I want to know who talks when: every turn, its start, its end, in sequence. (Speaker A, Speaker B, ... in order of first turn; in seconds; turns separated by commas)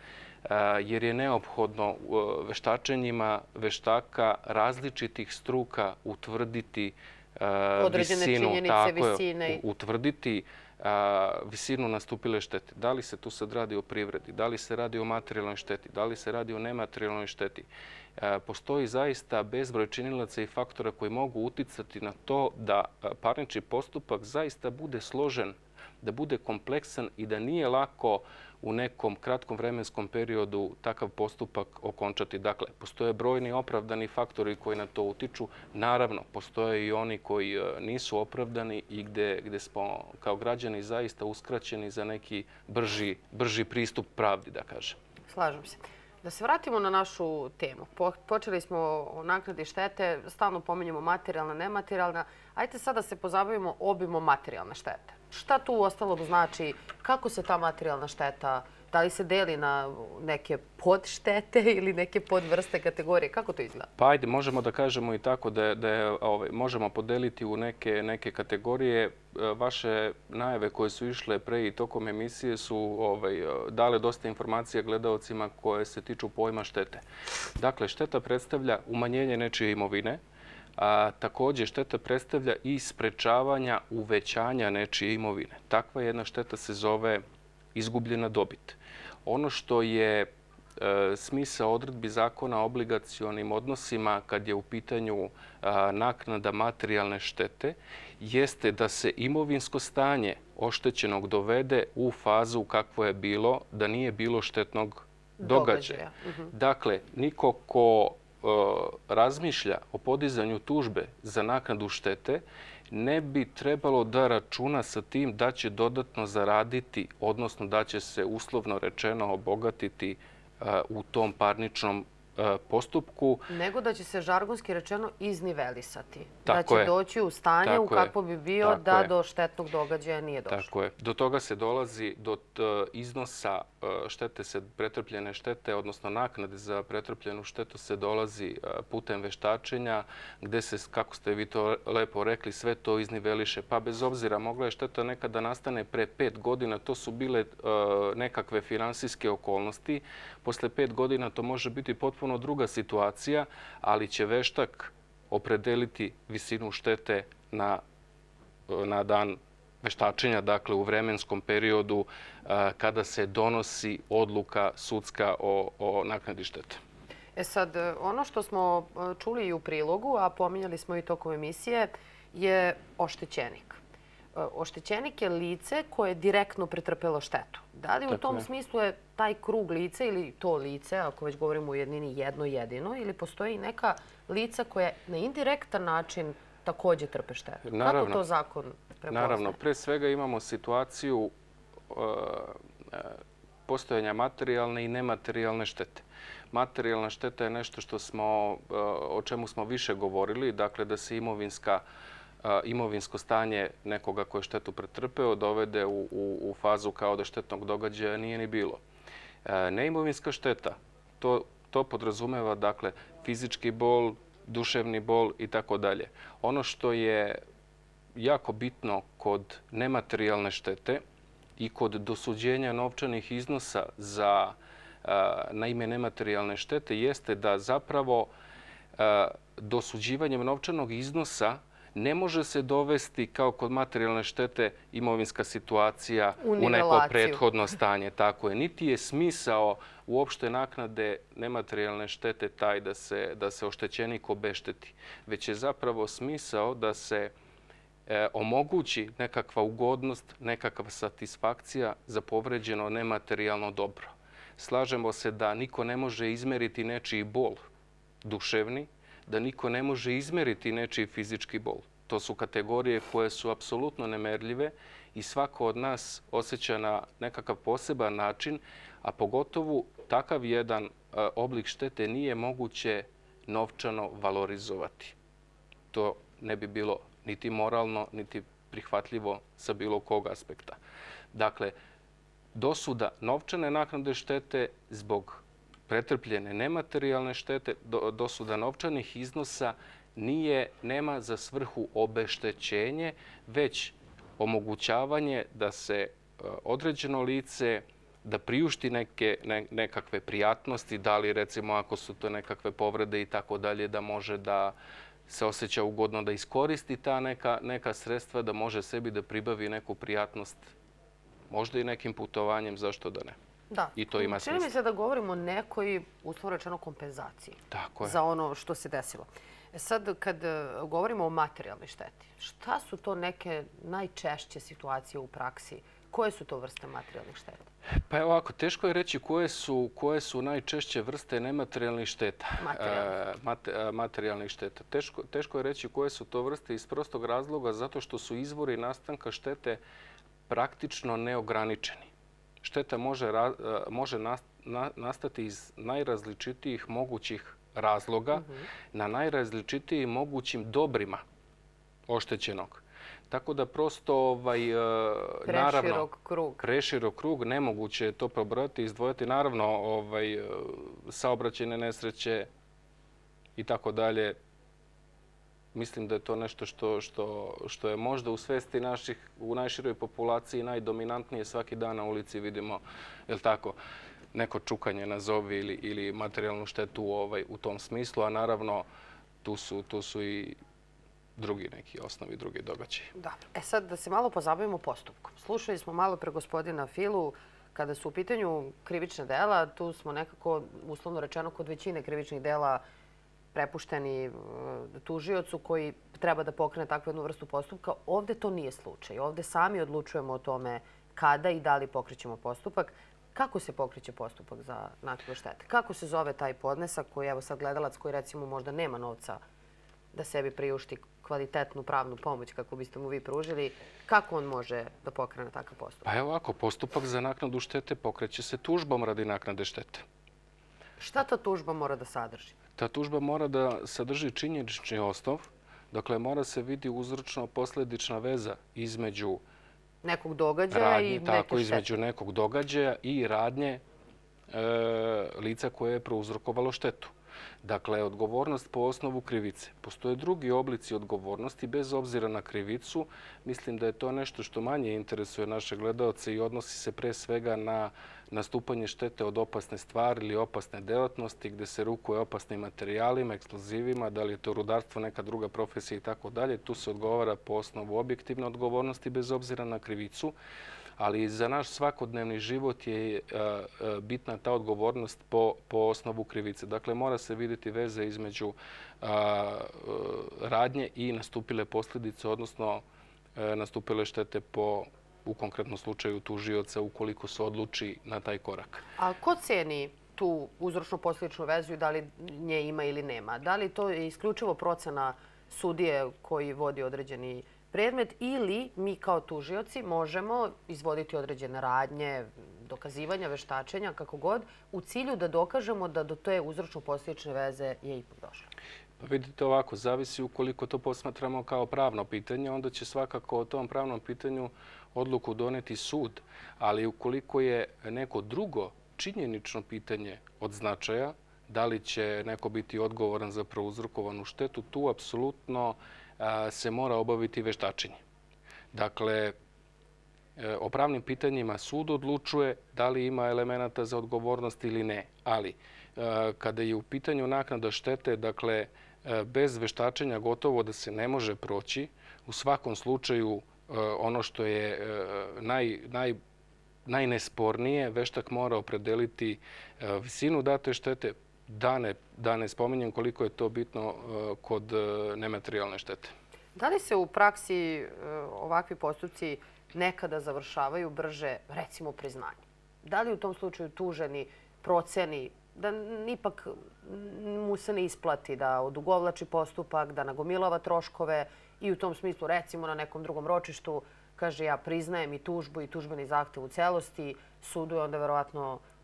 Speaker A: 0.4-45.0, Speaker B: 7.8-9.6, Speaker B: 45.3-63.9, Speaker A: 64.0-77.0, Speaker A: 77.6-80.2, Speaker A: 80.8-87.2, Speaker A: 87.7-123.5, Speaker B: 105.4-106.5, Speaker B: 123.5-130.7, Speaker A: 126.5-126.9, Speaker A: 127.6-129.1, Speaker A: 130.5-157.8, Speaker A: 158.7-166.8, Speaker B: 167.3-173.8, Speaker B: 174.3-189.6, Speaker A: 178.1-178.4, Speaker A: 187.6-188.2, Speaker A: 189.1-191.3, Speaker A: 191.9-201.8, Speaker A: 202.4-208.8, Speaker A: 209.4-217.4, Speaker A: 218.2-221.0, Speaker A: 221.6-228.3, Speaker A: 228.9-247.3, Speaker B: 236.4-237.4, Speaker A: 248.1-257.6, Speaker A: 258.2-275.1, Speaker A: 275.9-280.8, Speaker A: 281.3-281.7, Speaker A: 282.5-304.7, Speaker A: 305.3-310.7, Speaker A: 311.5-313.4, Speaker B: 313.7-327.7, Speaker A: 313.9-314.7, Speaker A: 317.7-318.2, Speaker A: 328.1-339.8, Speaker B: 332.6-333.1, Speaker A: 340.5-342.1, Speaker A: 342.6-351.2, Speaker B: 348.3-348.6, Speaker A: 352.1-356.1, Speaker B: 355.5-356.6, Speaker A: 356.6-362.5, Speaker A: 363.6-364.4, Speaker A: 365.7-373.8, Speaker A: 374.3-378.9, Speaker A: 379.4-380.6, Speaker A: 381.4-383.1, Speaker B: 383.1-392.8, Speaker B: 393.5-409.4, Speaker B: 410.1-416.1, Speaker A: 416.0-420.0, Speaker B: 421.0-422.6, Speaker A: 422.8-429.4, Speaker B: 430.0-431.8, Speaker A: 430.7-433.8, Speaker A: 434.5-437.1, Speaker A: 437.6-460.3, Speaker A: 461.0-472.8, Speaker A: 473.4-478.9, Speaker B: 479.0-498.5, Speaker A: 499.0-518.0, Speaker A: 518.7-519.4, Speaker A: 520.4-536.2, Speaker A: 536.9-546.1, Speaker B: 546.5-568.6